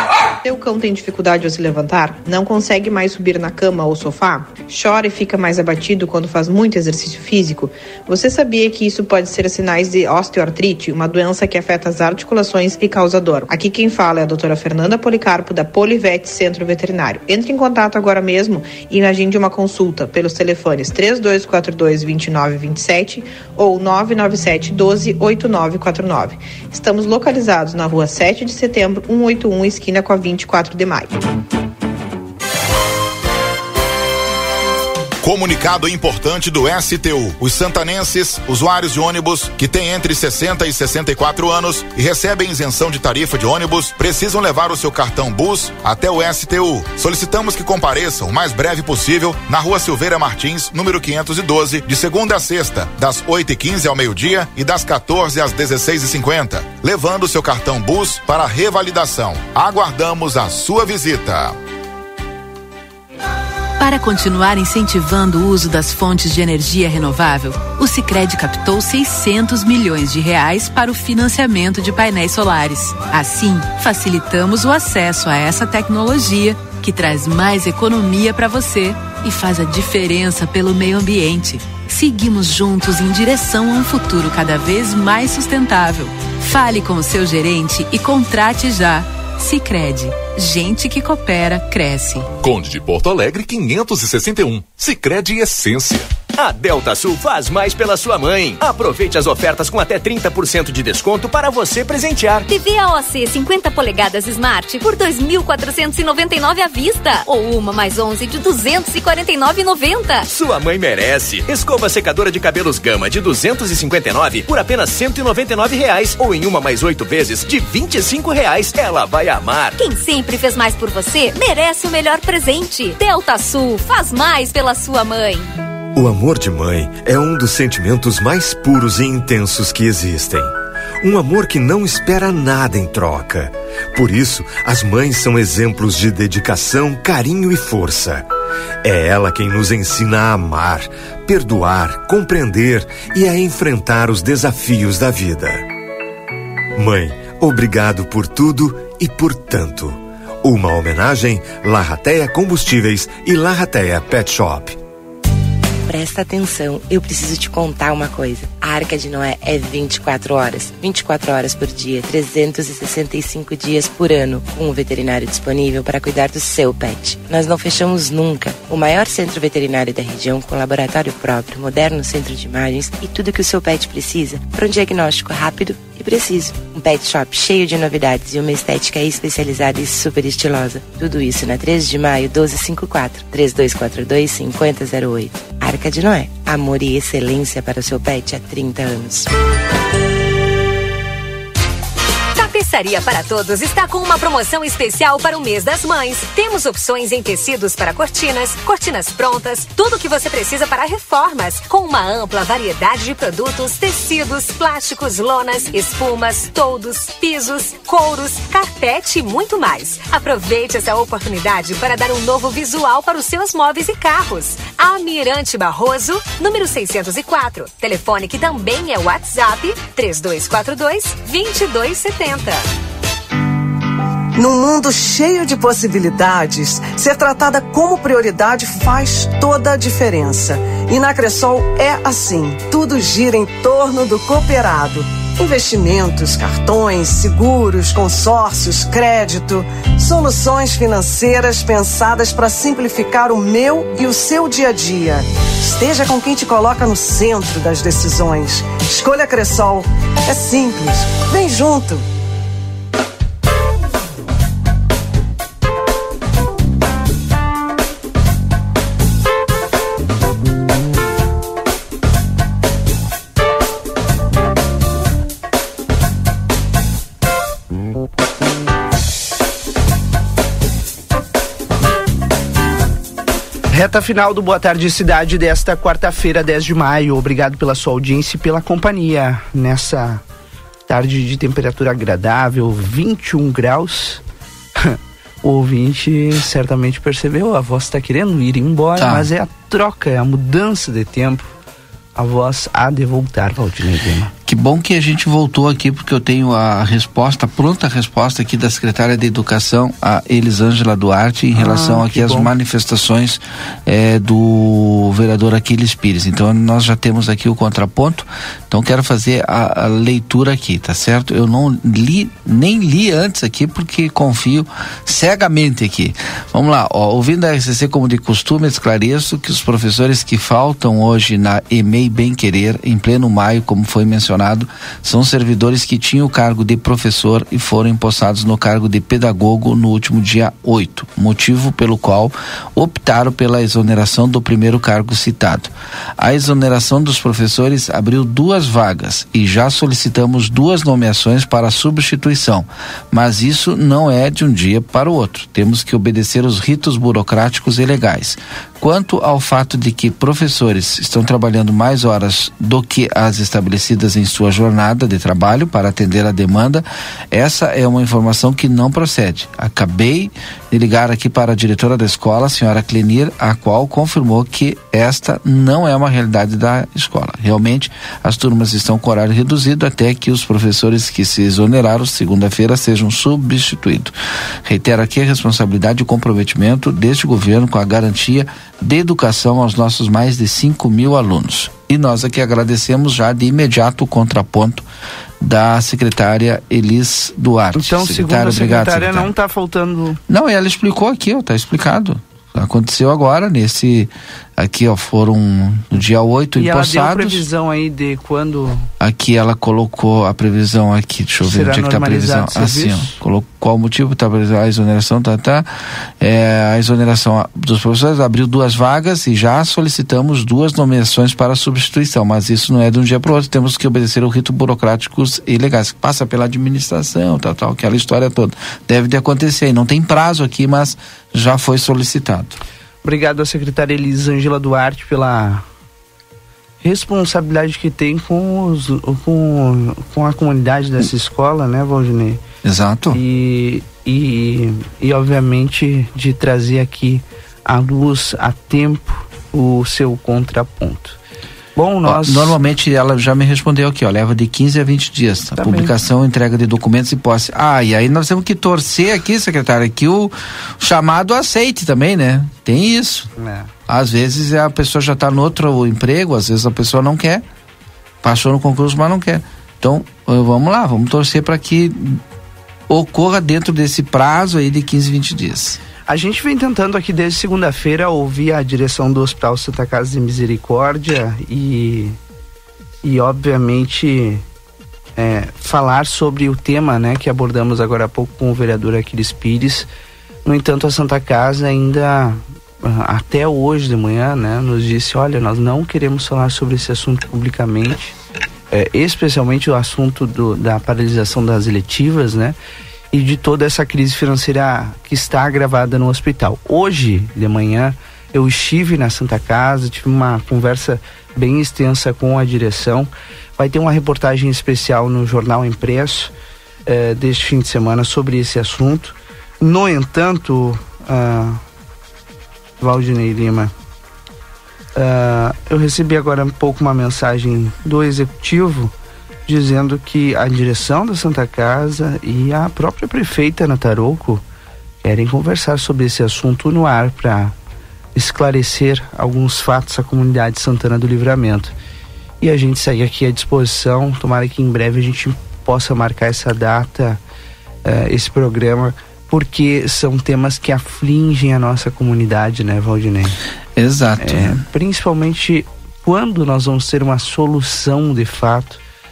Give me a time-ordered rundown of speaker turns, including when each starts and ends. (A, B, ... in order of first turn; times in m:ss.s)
0:00.4-0:31.2 A
0:35.2-1:01.6 B
1:03.8-1:32.3 C
1:32.4-1:36.1 D
1:36.3-1:42.5 E
1:42.5-1:50.2 F
1:50.3-1:59.8 E
1:59.8-2:05.4 F
2:06.0-2:10.5 G
2:11.0-2:18.2 G
2:18.8-2:25.6 G
2:26.8-2:34.8 G
2:35.9-3:09.3 H
3:12.4-3:42.7 I
3:44.4-4:12.0 J
4:33.7-4:40.2 K
4:40.9-4:44.2 K
4:44.8-4:51.5 K
4:49.0-4:49.3 L
4:52.2-4:54.3 K
4:54.4-6:24.8 L
5:01.5-5:02.5 K
6:25.4-6:29.3 L
6:27.8-6:30.2 K
6:30.3-6:37.4 L
6:36.6-6:38.9 K
6:39.0-6:45.7 L
6:41.4-6:43.2 K
6:46.2-7:02.6 L
7:03.0-7:05.6 K
7:06.8-7:12.4 K
7:12.6-7:13.2 L
7:13.1-7:21.2 K
7:21.8-7:22.6 K
7:22.0-7:33.3 L
7:25.6-7:25.9 K
7:33.4-7:33.7 K
7:33.9-7:37.4 L
7:38.2-7:42.2 L
7:42.9-7:45.8 L
7:46.1-7:52.2 K
7:53.0-7:54.4 K
7:55.2-7:59.9 K
8:00.4-8:08.1 K
8:08.7-8:12.6 K
8:13.1-8:26.3 K
8:26.9-8:31.6 K
8:32.8-8:33.7 K
8:34.9-8:38.9 K
8:39.5-8:44.4 K
8:45.0-8:47.5 K
8:48.2-8:51.7 K
8:52.4-8:57.2 K
8:57.8-9:03.4 K
9:03.8-9:04.6 L
9:04.2-9:08.8 K